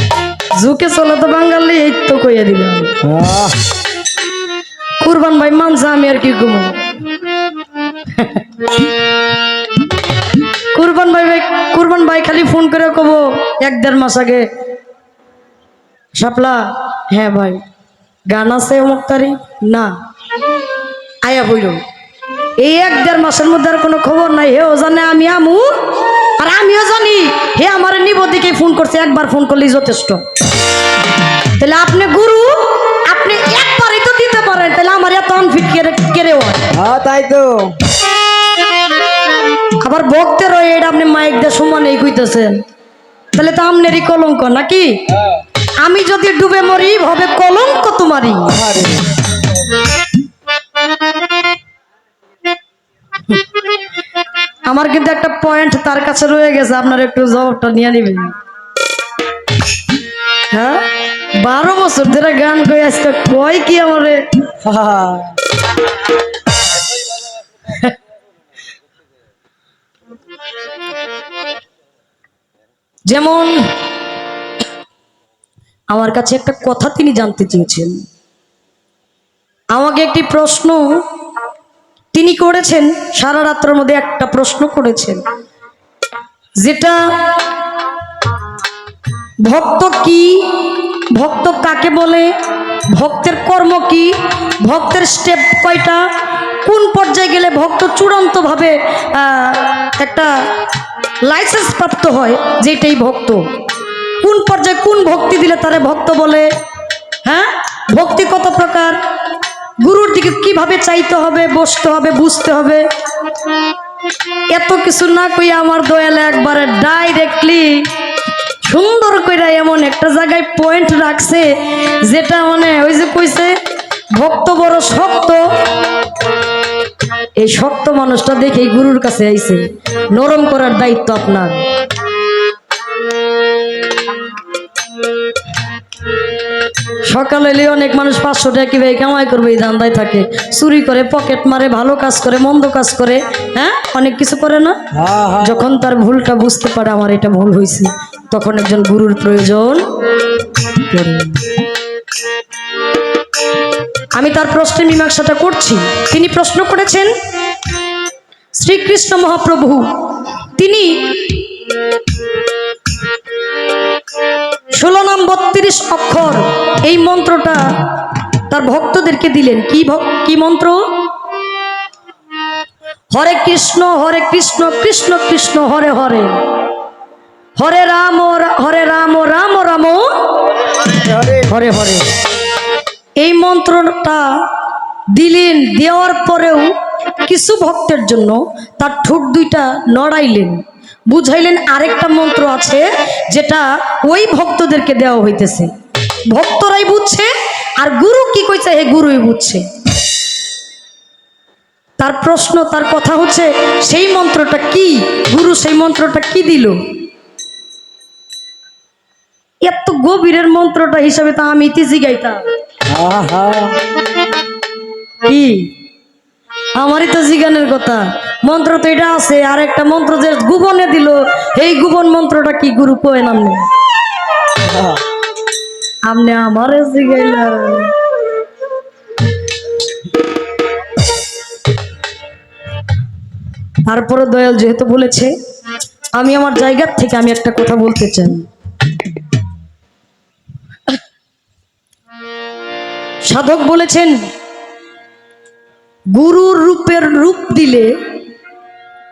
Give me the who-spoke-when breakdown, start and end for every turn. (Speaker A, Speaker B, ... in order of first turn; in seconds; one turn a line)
Speaker A: 0.6-2.9
Speaker B: 3.0-3.6
Speaker A: 5.0-6.8
Speaker A: 8.1-8.4
Speaker A: 10.7-14.5
Speaker A: 16.1-17.6
Speaker A: 18.3-19.9
Speaker A: 21.2-21.8
Speaker A: 22.6-25.7
Speaker A: 26.4-30.2
Speaker A: 31.6-36.7
Speaker B: 36.7-37.8
Speaker A: 39.8-42.6
Speaker A: 43.3-44.9
Speaker A: 45.8-48.6
Speaker B: 48.5-49.2
Speaker A: 54.7-58.3
Speaker A: 60.5-60.9
Speaker A: 61.4-64.2
Speaker B: 64.6-65.4
Speaker A: 73.1-73.5
Speaker A: 75.9-78.0
Speaker A: 79.7-81.0
Speaker A: 82.1-85.2
Speaker A: 86.6-87.3
Speaker A: 89.4-92.3
Speaker A: 92.9-96.1
Speaker A: 96.6-100.3
Speaker A: 101.2-103.4
Speaker A: 104.2-106.5
Speaker A: 107.2-109.0
Speaker A: 109.8-112.8
Speaker A: 114.5-117.9
Speaker A: 118.6-121.5
Speaker A: 122.0-123.6
Speaker A: 124.1-125.5
Speaker A: 127.4-131.6
Speaker A: 137.0-144.8
Speaker B: 144.9-145.6
Speaker A: 145.4-149.8
Speaker A: 150.7-151.5
Speaker A: 154.2-157.1
Speaker A: 158.5-159.9
Speaker A: 160.5-161.4
Speaker A: 164.7-170.8
Speaker A: 173.1-176.4
Speaker A: 177.6-180.1
Speaker A: 181.1-182.1
Speaker A: 183.2-184.5
Speaker A: 185.1-195.7
Speaker A: 196.3-199.6
Speaker A: 202.0-206.8
Speaker A: 209.6-212.4
Speaker B: 212.9-213.8
Speaker A: 215.2-215.7
Speaker A: 216.8-223.7
Speaker B: 224.6-225.0
Speaker A: 226.1-227.9
Speaker A: 233.8-235.3
Speaker A: 236.2-238.5
Speaker A: 243.2-244.2
Speaker A: 246.1-247.9